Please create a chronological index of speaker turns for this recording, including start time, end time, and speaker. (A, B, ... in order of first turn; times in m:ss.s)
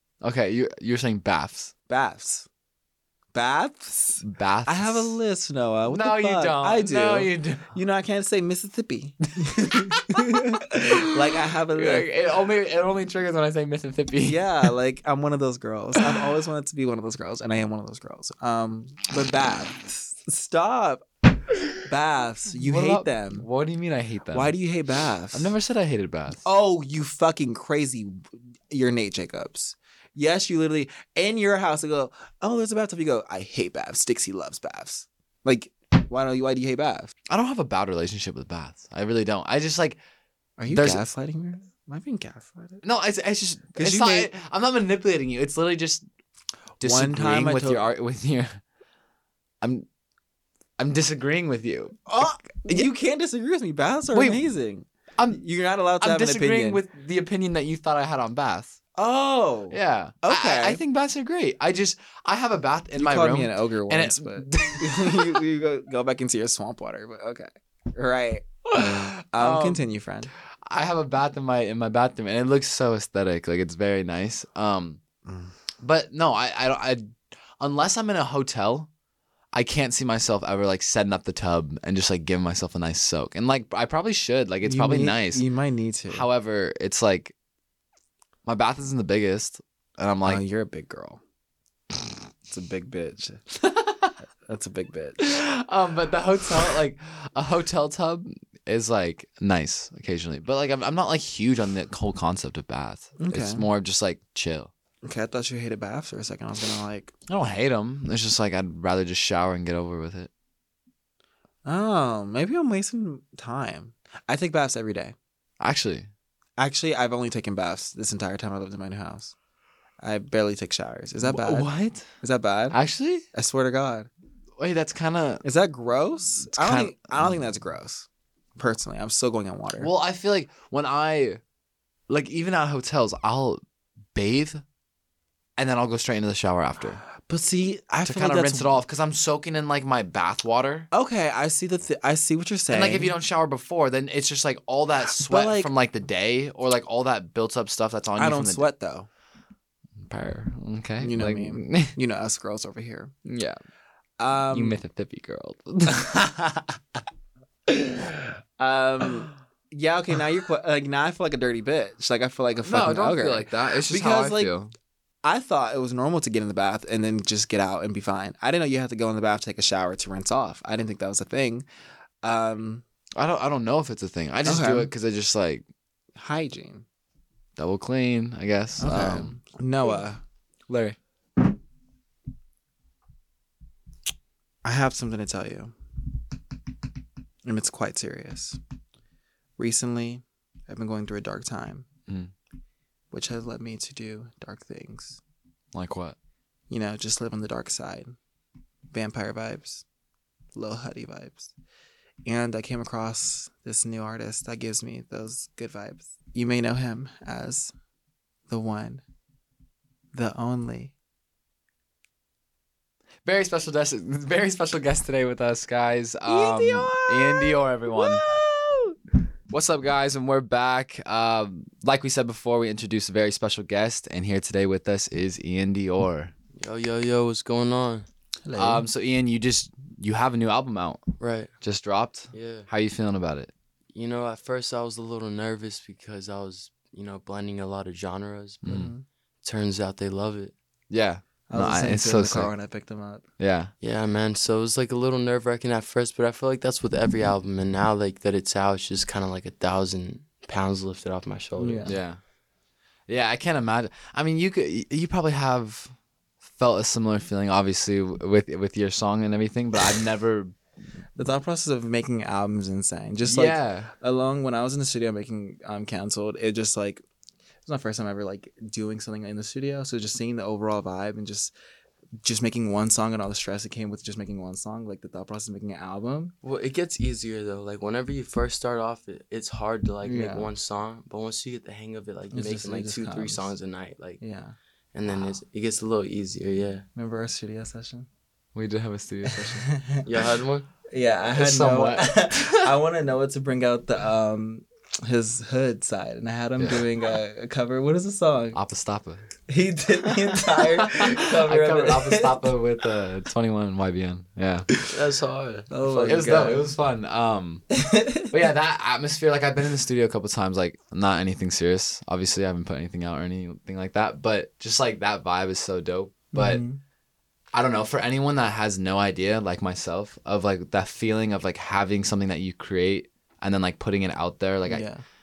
0:00.2-0:01.7 A
0:01.9-0:02.4 B
0:03.3-0:12.1 B
0:04.2-0:05.2 A
0:05.9-0:07.7 A
0:09.9-0:11.2 A
0:11.7-0:14.7 A
0:14.2-0:21.0 B
0:16.0-0:16.2 A
0:21.8-0:23.5 B
0:22.5-0:24.6 A
0:24.3-0:25.5 B
0:25.3-0:26.4 A
0:26.4-0:37.1 B
0:37.3-0:40.0 A
0:40.6-0:42.8 B
0:40.7-0:41.0 A
0:42.8-0:46.0 A
0:43.7-0:44.3 B
0:46.8-0:48.6 A
0:46.8-0:47.9 B
0:49.6-0:49.8 A
0:50.8-0:52.9 A
0:52.1-0:56.8 B
0:54.1-0:54.4 A
0:55.2-0:55.4 A
0:56.0-0:58.8 A
0:59.0-1:00.8 B
0:59.7-1:05.4 A
1:03.0-1:10.3 B
1:08.7-1:09.9 A
1:10.6-1:15.0 A
1:15.2-1:15.5 B
1:15.8-1:18.9 A
1:19.5-1:25.4 A
1:24.6-1:26.3 B
1:26.1-1:27.3 A
1:28.4-1:30.4 A
1:30.2-1:31.2 B
1:32.5-1:33.4 B
1:33.6-1:34.1 A
1:34.4-1:35.2 B
1:35.2-1:44.7 A
1:43.2-1:43.7 B
1:45.0-1:47.1 B
1:47.3-1:50.3 A
1:51.6-1:55.1 B
1:55.6-1:56.1 A
1:56.6-1:59.3 B
2:00.0-2:02.8 B
2:01.2-2:02.1 A
2:02.7-2:03.2 A
2:03.3-2:04.1 B
2:04.6-2:05.4 A
2:05.4-2:08.0 B
2:06.4-2:07.4 A
2:08.6-2:09.9 B
2:09.8-2:11.4 A
2:12.1-2:13.6 A
2:14.1-2:14.6 A
2:15.6-2:17.0 A
2:17.2-2:18.8 B
2:18.0-2:20.9 A
2:20.9-2:23.2 B
2:22.7-2:28.7 A
2:25.2-2:25.7 B
2:28.2-2:29.1 B
2:30.0-2:32.0 A
2:31.0-2:33.1 B
2:33.2-2:33.6 A
2:34.2-2:34.8 B
2:34.5-2:36.7 A
2:38.6-2:44.5 B
2:42.6-2:44.7 A
2:45.2-2:51.6 B
2:52.2-2:52.8 B
2:53.2-2:55.6 A
2:54.4-2:54.9 B
2:56.1-2:56.8 B
2:57.6-3:00.0 A
2:58.8-3:00.2 B
3:00.7-3:01.0 A
3:04.6-3:05.7 B
3:07.4-3:08.6 B
3:09.6-3:11.9 B
3:12.1-3:12.3 A
3:13.1-3:15.2 B
3:15.7-3:16.2 A
3:16.7-3:18.2 B
3:18.9-3:19.8 B
3:20.5-3:21.5 B
3:22.2-3:27.7 B
3:28.5-3:29.0 B
3:30.1-3:30.9 B
3:33.2-3:38.2 A
3:36.3-3:38.9 B
3:39.5-3:46.3 A
3:46.6-3:48.1 C
3:48.4-3:48.8 B
3:48.5-3:51.1 A
3:51.2-3:51.5 C
3:51.6-3:53.5 A
3:52.3-3:52.7 C
3:53.9-3:58.8 C
3:58.6-3:58.9 A
3:58.6-3:59.0 B
3:59.4-4:00.5 C
4:00.9-4:02.5 A
4:01.5-4:03.2 B
4:03.4-4:03.7 A
4:03.8-4:11.9 C
4:11.6-4:12.0 B
4:11.8-4:12.2 A
4:13.1-4:20.6 A
4:21.2-4:27.0 B
4:23.2-4:23.9 A
4:27.6-4:31.5 B
4:32.2-4:36.3 B
4:36.4-4:44.2 C
4:40.0-4:40.5 B
4:42.3-4:43.5 B
4:44.2-4:44.6 B
4:44.9-4:46.8 C
4:46.9-4:48.1 B
4:48.5-4:49.7 A
4:49.2-4:50.0 B
4:50.0-4:50.7 C
4:50.9-4:58.6 B
4:51.3-4:52.7 A
4:56.6-4:56.8 A
4:58.5-4:59.3 A
4:59.5-5:02.5 B
5:00.5-5:04.7 A
5:04.8-5:06.2 C
5:05.7-5:06.7 B
5:06.0-5:07.7 A
5:07.7-5:08.3 B
5:08.2-5:16.6 A
5:16.3-5:16.8 B
5:17.5-5:24.9 A
5:24.7-5:25.0 B